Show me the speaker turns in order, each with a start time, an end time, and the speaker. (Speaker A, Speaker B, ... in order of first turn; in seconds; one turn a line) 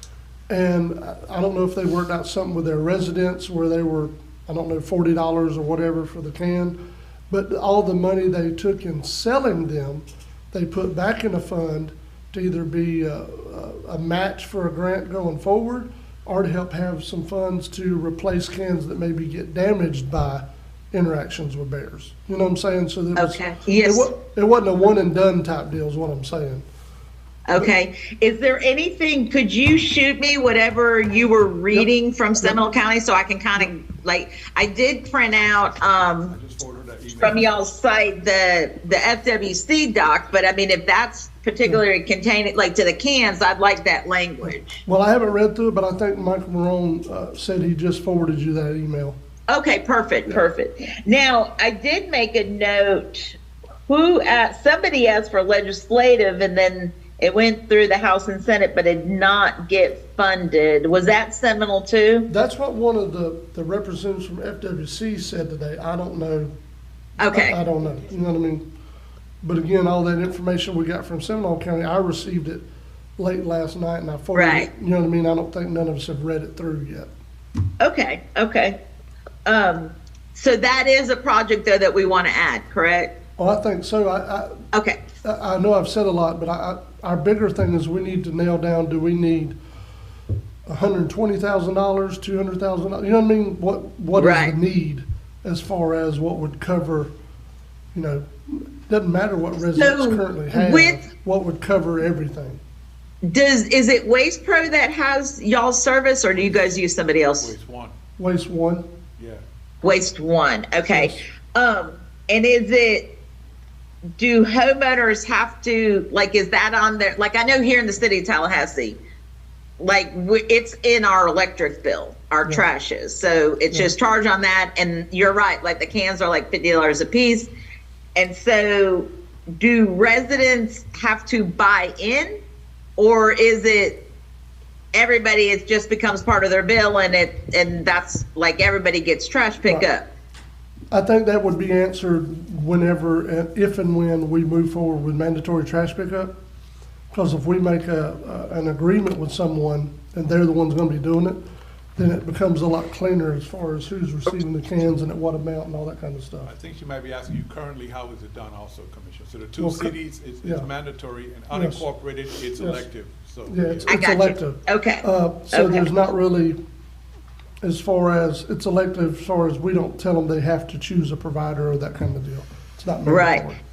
Speaker A: 0.5-6.8
Speaker A: 7.3-26.6
Speaker B: 23.1-24.1
Speaker B: 27.5-36.3
Speaker C: 36.2-37.6
Speaker B: 37.2-44.8
Speaker A: 44.9-49.2
Speaker B: 49.5-62.3
Speaker A: 62.3-66.5
Speaker B: 67.2-67.6
Speaker A: 67.3-68.6
Speaker A: 69.4-72.6
Speaker A: 73.2-77.1
Speaker B: 74.3-74.7
Speaker B: 77.8-78.8
Speaker B: 79.5-83.1
Speaker A: 83.4-84.6
Speaker B: 84.7-85.0
Speaker A: 85.2-89.5
Speaker A: 90.7-97.1
Speaker B: 94.2-94.5
Speaker A: 97.9-102.6
Speaker B: 99.8-101.0
Speaker B: 103.2-107.5
Speaker C: 106.3-106.7
Speaker C: 107.4-107.9
Speaker A: 108.2-108.9
Speaker C: 109.2-109.4
Speaker B: 109.8-113.1
Speaker A: 110.8-111.2
Speaker B: 114.2-119.0
Speaker B: 119.8-127.5
Speaker B: 128.2-132.3
Speaker B: 133.0-134.0
Speaker B: 134.9-140.0
Speaker A: 139.6-139.9
Speaker A: 140.9-146.3
Speaker A: 147.1-151.4
Speaker A: 151.9-156.5
Speaker C: 156.4-164.0
Speaker A: 159.6-160.7
Speaker A: 161.5-161.9
Speaker A: 162.6-162.8
Speaker A: 163.5-166.6
Speaker B: 163.9-165.9
Speaker A: 167.6-173.6
Speaker B: 173.1-173.4